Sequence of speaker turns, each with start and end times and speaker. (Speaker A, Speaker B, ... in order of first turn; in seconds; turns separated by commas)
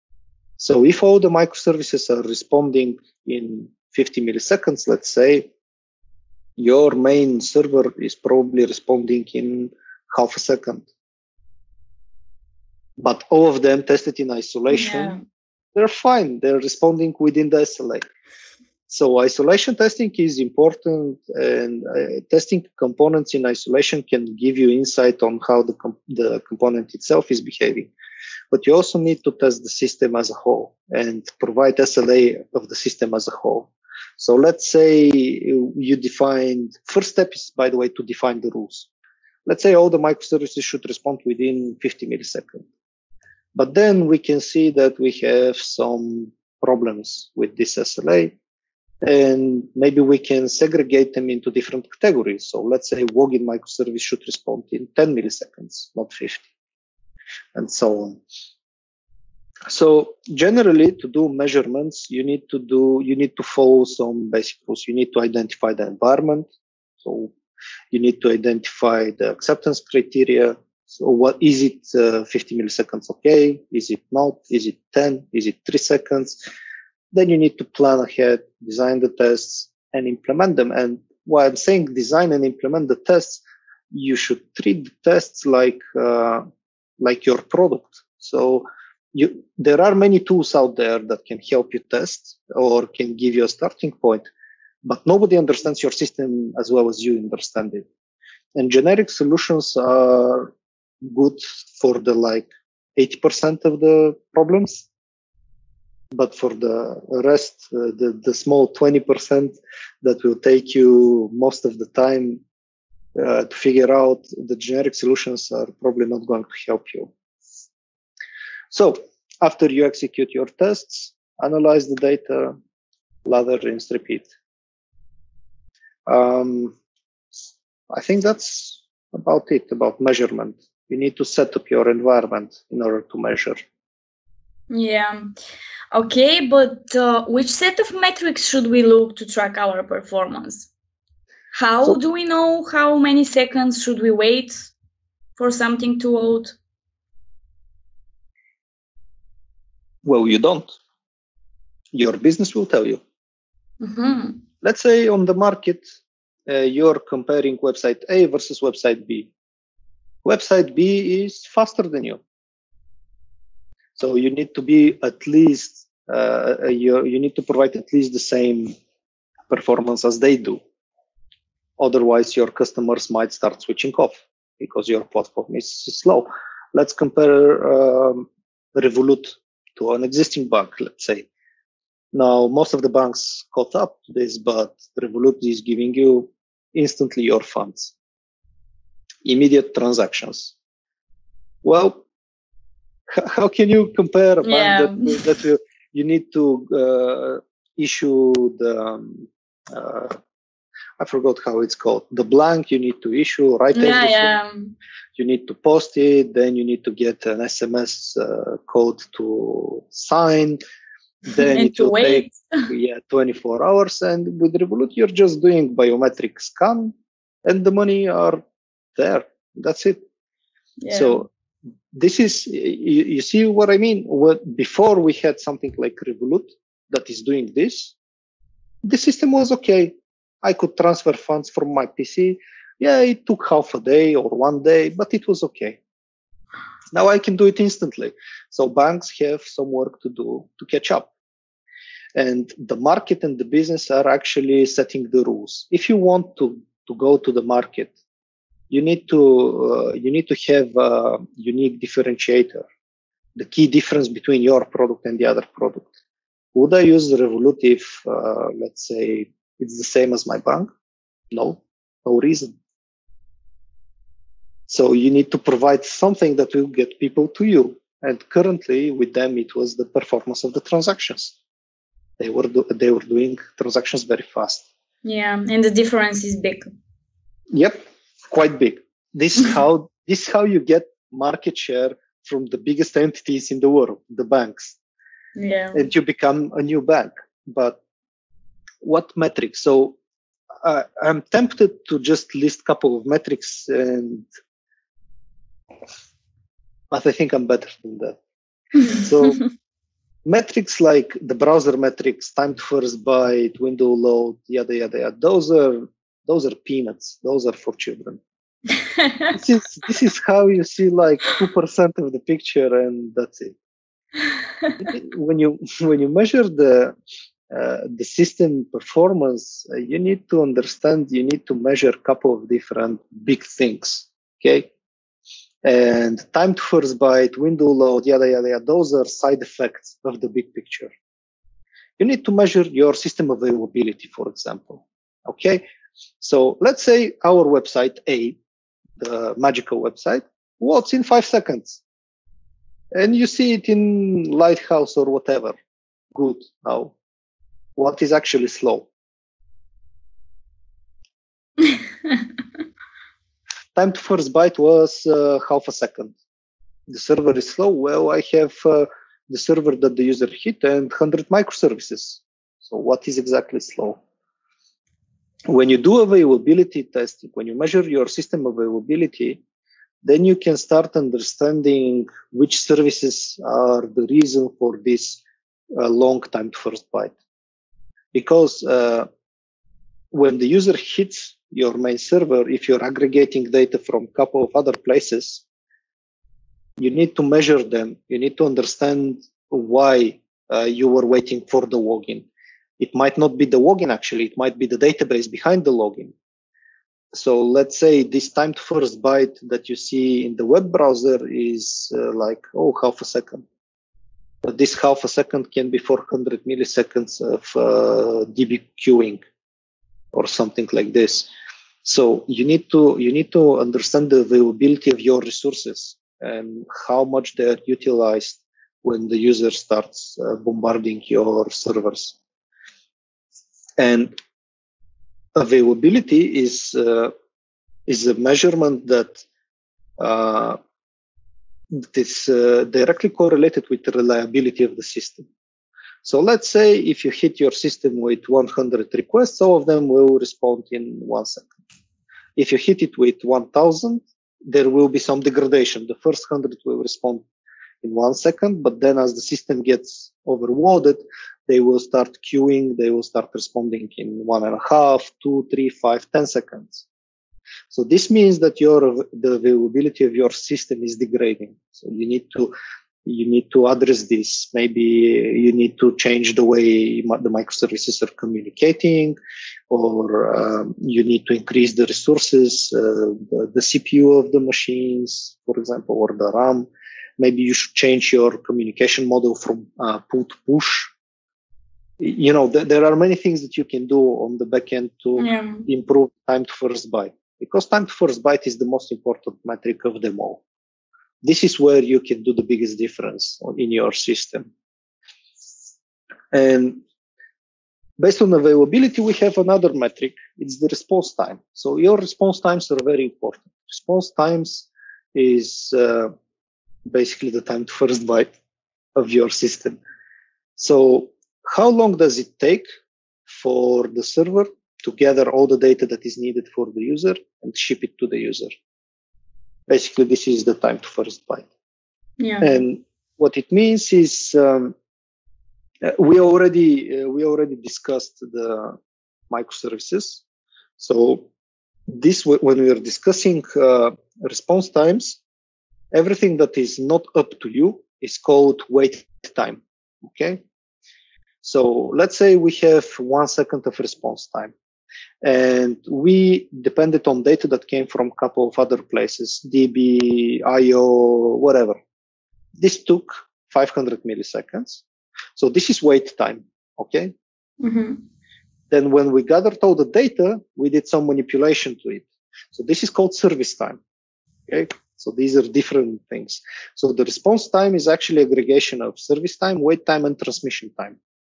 Speaker A: 0.6-5.5, Speaker A: 6.6-10.9, Speaker A: 13.0-15.2, Speaker B: 14.7-15.2, Speaker A: 15.7-18.1, Speaker A: 18.9-27.9, Speaker A: 28.5-38.9, Speaker A: 39.5-42.7, Speaker A: 43.5-48.3, Speaker A: 49.0-56.5, Speaker A: 57.5-58.2, Speaker A: 59.7-66.5, Speaker A: 67.0-67.3, Speaker A: 67.9-76.4, Speaker A: 77.1-86.4, Speaker A: 87.0-94.3, Speaker A: 94.8-97.9, Speaker A: 98.5-104.8, Speaker A: 106.1-112.4, Speaker A: 113.1-117.1, Speaker A: 118.7-122.5, Speaker A: 123.2-124.3, Speaker A: 126.0-126.7, Speaker A: 127.9-133.6, Speaker B: 134.7-135.3, Speaker B: 135.9-140.7, Speaker B: 141.5-144.7, Speaker B: 145.4-146.6, Speaker A: 150.0-150.8, Speaker A: 151.9-153.0, Speaker B: 153.8-154.4, Speaker A: 154.6-155.9, Speaker A: 156.5-159.3, Speaker A: 160.2-162.2, Speaker A: 163.9-168.7, Speaker A: 169.5-170.6, Speaker A: 171.8-181.3, Speaker A: 182.1-187.9, Speaker A: 189.2-190.5, Speaker A: 191.6-192.0, Speaker A: 193.1-200.2, Speaker B: 194.4-195.2, Speaker A: 201.0-204.4, Speaker B: 203.7-204.7, Speaker A: 205.2-210.6, Speaker B: 211.3-212.7, Speaker A: 211.3-218.4, Speaker A: 218.9-220.0, Speaker B: 220.8-221.2, Speaker A: 220.9-221.3, Speaker A: 221.9-227.9, Speaker A: 228.8-235.8, Speaker A: 236.9-241.1, Speaker A: 242.1-247.9, Speaker A: 248.7-252.7, Speaker A: 253.3-255.9, Speaker A: 256.5-260.7, Speaker A: 261.3-262.5, Speaker A: 264.7-271.4, Speaker A: 272.2-274.7, Speaker B: 275.0-276.7, Speaker A: 277.5-284.8, Speaker B: 285.4-285.8, Speaker A: 285.7-287.8, Speaker A: 288.8-290.0, Speaker A: 290.6-294.3, Speaker A: 296.9-298.2, Speaker A: 298.8-299.4, Speaker A: 300.2-308.2, Speaker B: 309.0-309.3, Speaker A: 309.3-313.6, Speaker A: 314.8-316.9, Speaker A: 317.5-324.7, Speaker A: 325.6-330.9, Speaker A: 332.0-335.6, Speaker A: 336.2-338.4, Speaker A: 339.0-341.8, Speaker A: 342.9-345.6, Speaker A: 346.1-346.9, Speaker A: 347.8-348.9, Speaker A: 353.7-356.2, Speaker A: 356.9-364.0, Speaker A: 365.5-369.4, Speaker A: 370.0-375.2, Speaker A: 375.7-377.1, Speaker A: 378.1-379.1, Speaker A: 380.1-385.4, Speaker A: 386.8-392.3, Speaker A: 392.8-396.1, Speaker A: 397.1-403.4, Speaker A: 404.4-409.2, Speaker A: 410.1-411.3, Speaker A: 411.8-422.2, Speaker A: 423.8-424.1, Speaker A: 425.3-427.1, Speaker A: 427.9-429.2, Speaker A: 430.0-430.6, Speaker A: 431.7-435.3, Speaker A: 436.0-441.5, Speaker A: 442.4-447.2, Speaker A: 447.8-456.9, Speaker A: 457.7-462.5, Speaker A: 463.0-469.2, Speaker A: 469.7-480.9, Speaker A: 482.0-490.4, Speaker B: 485.2-485.7, Speaker A: 491.2-494.4, Speaker A: 496.3-496.8, Speaker A: 498.0-506.1, Speaker A: 506.8-508.3, Speaker A: 508.9-509.8, Speaker A: 510.6-512.7, Speaker A: 513.3-518.6, Speaker A: 519.7-521.5, Speaker B: 522.2-522.6, Speaker A: 522.4-524.7, Speaker A: 525.8-528.8, Speaker A: 529.3-530.2, Speaker A: 530.8-531.3, Speaker A: 531.9-535.2, Speaker A: 535.9-540.4, Speaker A: 541.4-544.5, Speaker A: 545.2-551.8, Speaker A: 552.6-554.8, Speaker A: 555.4-557.1, Speaker B: 557.6-558.0, Speaker A: 558.7-563.8, Speaker A: 564.5-571.0